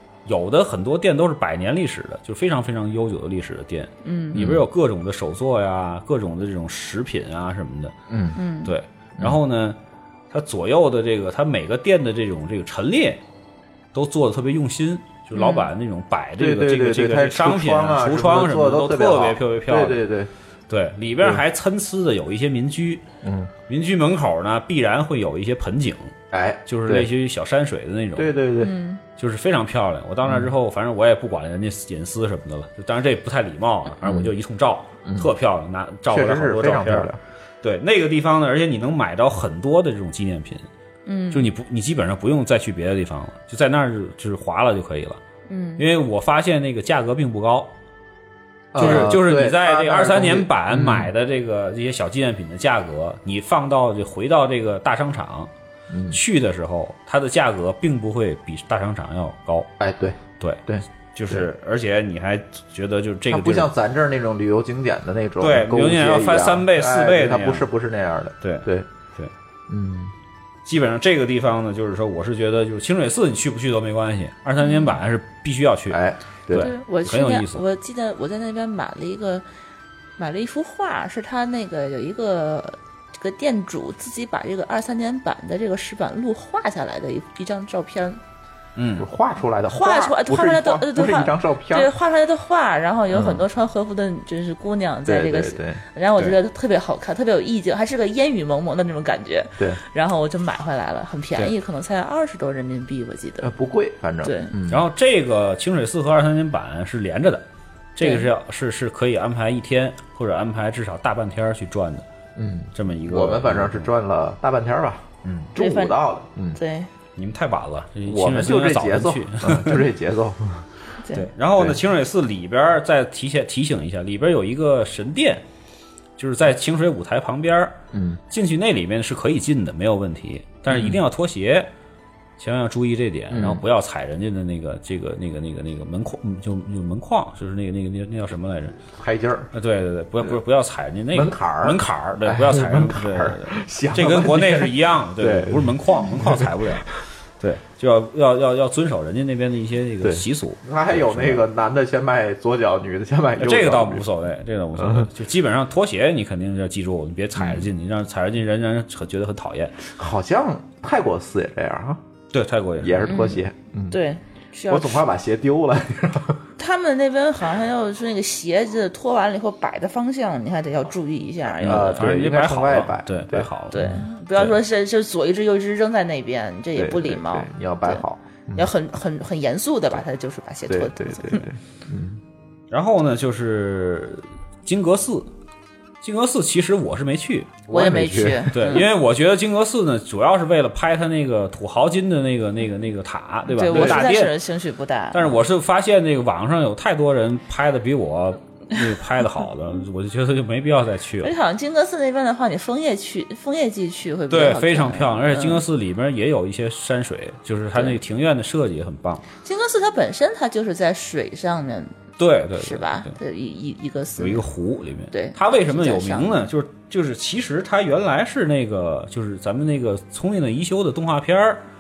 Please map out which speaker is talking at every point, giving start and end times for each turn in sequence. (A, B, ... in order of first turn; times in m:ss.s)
0:00.3-0:08.0 A
0:04.0-0:04.4 B
0:04.4-0:04.6 C
0:08.1-0:08.4 C
0:08.4-0:08.7 B
0:08.6-0:09.8 A
0:10.3-0:13.2 A
0:13.9-0:20.0 A
0:15.3-0:15.7 B
0:16.4-0:20.3 C
0:20.7-0:23.0 A
0:23.2-0:23.5 C
0:23.7-0:26.1 A
0:26.3-0:27.1 C
0:26.7-0:28.3 A
0:28.2-0:28.7 C
0:28.6-0:29.0 B
0:29.2-0:37.1 A
0:30.2-0:30.5 C
0:34.0-0:34.3 C
0:35.0-0:35.3 C
0:36.1-0:37.2 C
0:37.6-0:40.7 A
0:41.1-0:41.5 B
0:41.3-0:45.2 A
0:45.5-0:45.9 B
0:45.8-0:47.7 A
0:48.7-0:51.1 C
0:48.8-0:55.5 A
0:55.9-0:56.2 C
0:56.1-0:59.7 A
0:59.8-1:01.5 C
1:01.1-1:03.7 A
1:03.3-1:08.9 C
1:05.4-1:07.7 A
1:08.4-1:09.3 A
1:09.7-1:10.1 C
1:10.6-1:17.6 A
1:14.6-1:15.0 B
1:15.9-1:16.7 C
1:16.6-1:19.4 B
1:20.2-1:28.2 B
1:28.8-1:29.1 A
1:29.0-1:31.9 C
1:29.7-1:43.5 B
1:33.1-1:33.4 C
1:35.1-1:36.3 C
1:43.4-1:44.8 C
1:44.2-1:44.5 B
1:44.7-1:52.1 A
1:48.0-1:48.3 B
1:52.4-1:56.6 C
1:52.8-1:53.9 A
1:55.6-1:56.0 B
1:56.6-1:56.9 B
1:57.2-1:59.9 A
1:58.1-2:00.7 C
2:01.1-2:05.4 A
2:06.2-2:07.8 A
2:07.9-2:08.2 C
2:08.3-2:11.7 A
2:10.7-2:11.0 C
2:12.4-2:18.8 A
2:13.3-2:13.6 C
2:19.0-2:19.5 C
2:19.5-2:31.5 A
2:21.1-2:26.7 C
2:30.0-2:34.1 C
2:33.4-2:39.9 A
2:34.8-2:35.1 C
2:37.4-2:37.7 C
2:39.9-2:42.0 C
2:42.3-2:43.2 A
2:42.8-2:44.0 C
2:43.1-2:45.1 B
2:44.7-2:46.4 C
2:46.6-2:52.1 B
2:51.6-2:54.1 C
2:51.6-2:53.8 A
2:53.7-2:58.0 B
2:56.8-2:58.7 C
2:58.6-3:01.4 B
3:00.7-3:02.2 C
3:02.7-3:05.3 A
3:06.0-3:07.6 A
3:07.7-3:08.8 C
3:07.7-3:08.9 B
3:08.5-3:14.4 A
3:13.5-3:15.4 B
3:13.7-3:14.1 C
3:15.1-3:21.3 A
3:21.2-3:25.6 B
3:24.3-3:29.2 A
3:29.4-3:32.0 B
3:32.2-3:33.1 A
3:32.6-3:34.4 B
3:34.2-3:41.6 A
3:35.1-3:36.5 B